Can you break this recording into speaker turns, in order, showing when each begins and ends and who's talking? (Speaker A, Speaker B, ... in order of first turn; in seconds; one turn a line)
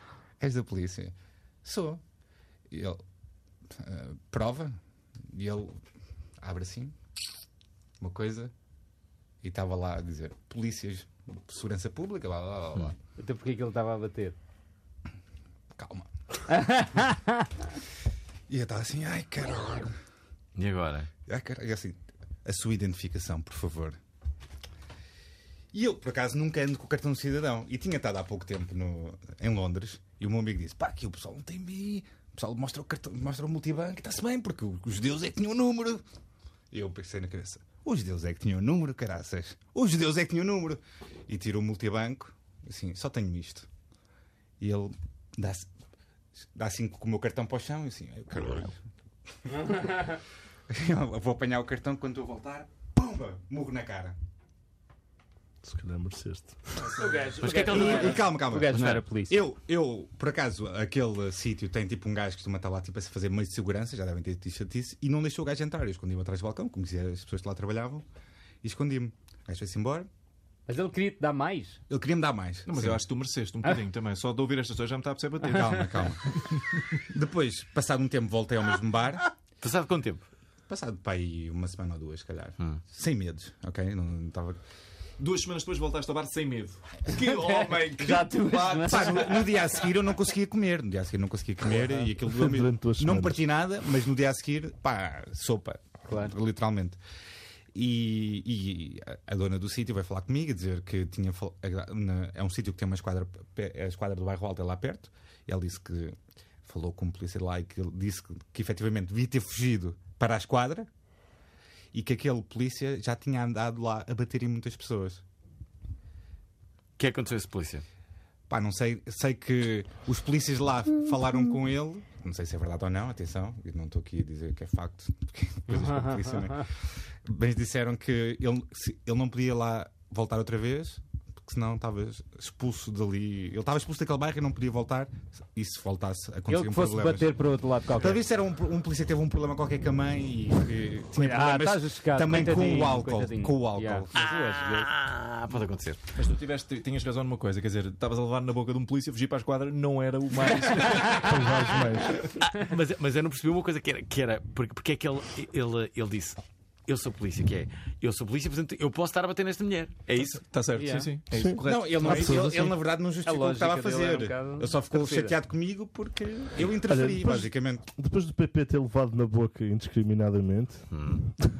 Speaker A: 0.4-2.0
Speaker A: 2.7-3.0
Speaker A: 3.7-4.8
Speaker A: 5.3-5.8
Speaker A: 6.4-6.9
Speaker A: 8.0-8.5
Speaker A: 9.4-12.9
Speaker B: 13.2-14.3
Speaker A: 15.7-16.1
Speaker B: 16.5-17.5
Speaker A: 18.5-19.9
Speaker C: 20.6-21.1
Speaker A: 21.2-24.0
Speaker A: 25.7-36.0
Speaker A: 36.7-43.7
Speaker A: 44.6-45.7
Speaker A: 46.5-48.8
Speaker A: 50.7-54.1
Speaker D: 55.6-57.0
Speaker B: 56.9-59.4
Speaker C: 57.4-59.0
Speaker A: 57.4-68.0
Speaker A: 68.6-70.1
Speaker B: 70.7-71.8
Speaker A: 71.9-73.0
Speaker E: 72.7-77.0
Speaker A: 75.5-76.4
Speaker A: 77.0-79.3
Speaker C: 79.6-80.2
Speaker A: 80.7-84.6
Speaker E: 85.2-89.5
Speaker B: 87.1-89.4
Speaker A: 88.9-97.0
Speaker D: 92.2-93.4
Speaker B: 96.1-96.3
Speaker A: 97.7-110.9
Speaker A: 111.9-115.2
Speaker C: 117.0-117.8
Speaker A: 118.5-126.7
Speaker B: 125.7-126.6
Speaker A: 127.2-137.3
Speaker B: 136.5-138.2
Speaker A: 138.0-144.1
Speaker B: 141.2-144.9
Speaker C: 144.1-146.0
Speaker E: 146.1-151.4
Speaker D: 151.1-152.2
Speaker C: 152.4-160.4
Speaker E: 160.1-162.7
Speaker B: 160.8-161.1
Speaker D: 161.3-162.7
Speaker A: 161.6-167.8
Speaker B: 163.2-165.3
Speaker D: 166.8-170.9
Speaker C: 170.9-171.2